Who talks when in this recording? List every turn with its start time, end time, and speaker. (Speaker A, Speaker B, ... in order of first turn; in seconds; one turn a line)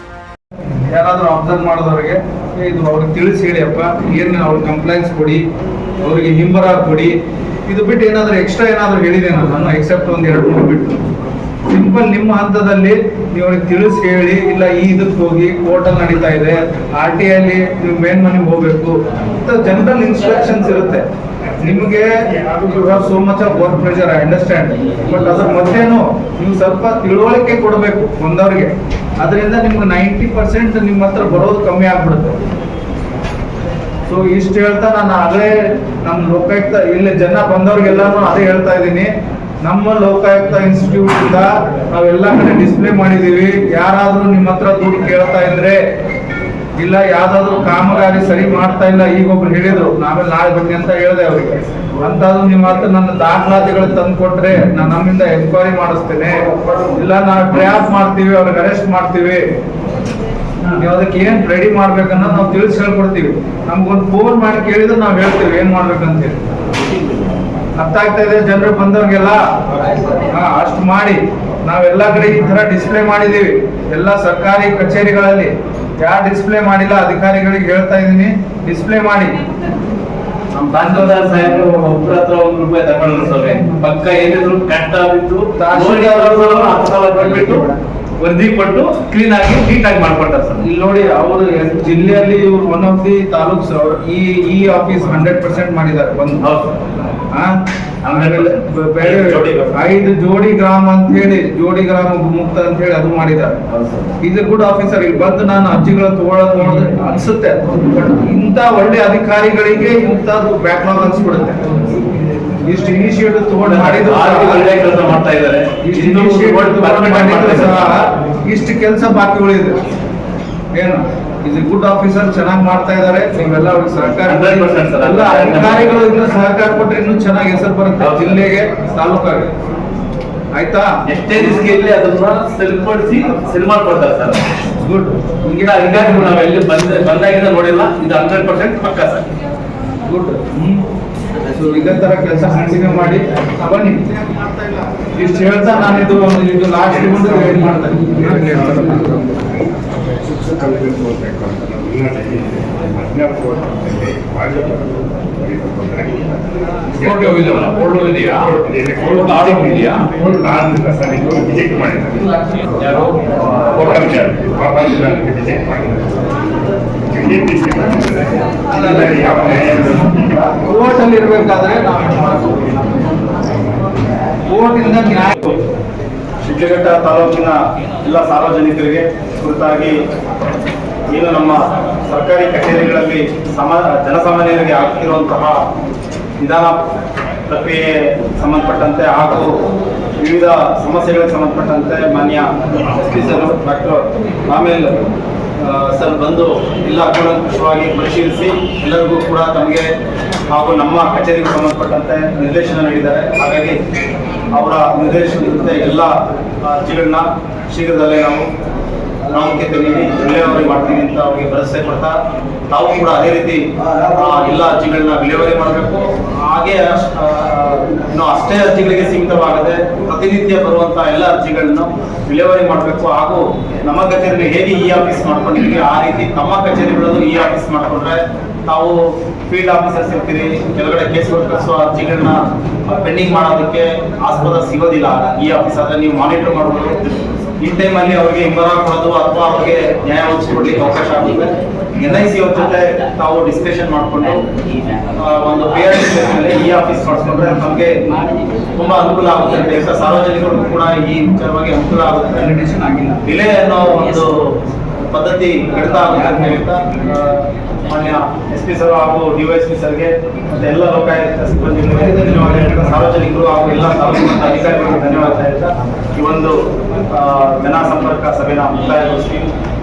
Speaker A: 0.8-5.4
Speaker A: 6.0-7.1
Speaker A: 7.7-11.0
Speaker A: 11.7-21.0
Speaker A: 21.6-32.4
Speaker A: 34.1-39.1
Speaker A: 39.6-45.8
Speaker A: 46.8-59.4
Speaker A: 60.7-66.4
Speaker A: 67.8-69.4
Speaker A: 70.0-75.5
Speaker A: 76.0-79.4
Speaker B: 80.5-87.6
Speaker A: 80.8-81.8
Speaker A: 85.5-87.7
Speaker B: 88.2-90.6
Speaker A: 90.6-96.4
Speaker B: 96.4-96.8
Speaker B: 98.0-98.6
Speaker A: 98.1-103.6
Speaker C: 99.0-99.7
Speaker A: 104.2-111.6
Speaker A: 112.6-114.7
Speaker B: 113.6-117.9
Speaker A: 115.8-119.8
Speaker A: 120.7-129.5
Speaker B: 124.2-126.0
Speaker B: 128.0-128.4
Speaker A: 130.5-130.9
Speaker B: 131.1-134.4
Speaker A: 134.8-136.6
Speaker B: 135.6-139.3
Speaker A: 140.1-140.8
Speaker A: 141.5-144.0
Speaker A: 145.1-149.2
Speaker D: 149.0-149.5
Speaker D: 150.3-156.3
Speaker D: 157.0-157.5
Speaker B: 157.4-158.3
Speaker D: 158.4-162.3
Speaker B: 159.0-159.9
Speaker B: 162.8-164.2
Speaker D: 163.8-166.2
Speaker D: 167.1-168.4
Speaker A: 168.7-169.8
Speaker D: 168.9-170.2
Speaker A: 170.4-172.8
Speaker A: 174.5-175.5
Speaker C: 176.4-179.9
Speaker C: 181.1-185.6
Speaker C: 186.4-186.8
Speaker C: 187.5-189.6
Speaker C: 190.2-194.9
Speaker C: 195.6-199.8
Speaker C: 200.5-203.8
Speaker C: 204.5-208.5
Speaker C: 209.3-212.2
Speaker C: 212.7-229.0
Speaker C: 229.5-244.4
Speaker C: 245.2-247.9
Speaker C: 248.7-254.3
Speaker C: 255.1-266.6
Speaker C: 267.1-269.5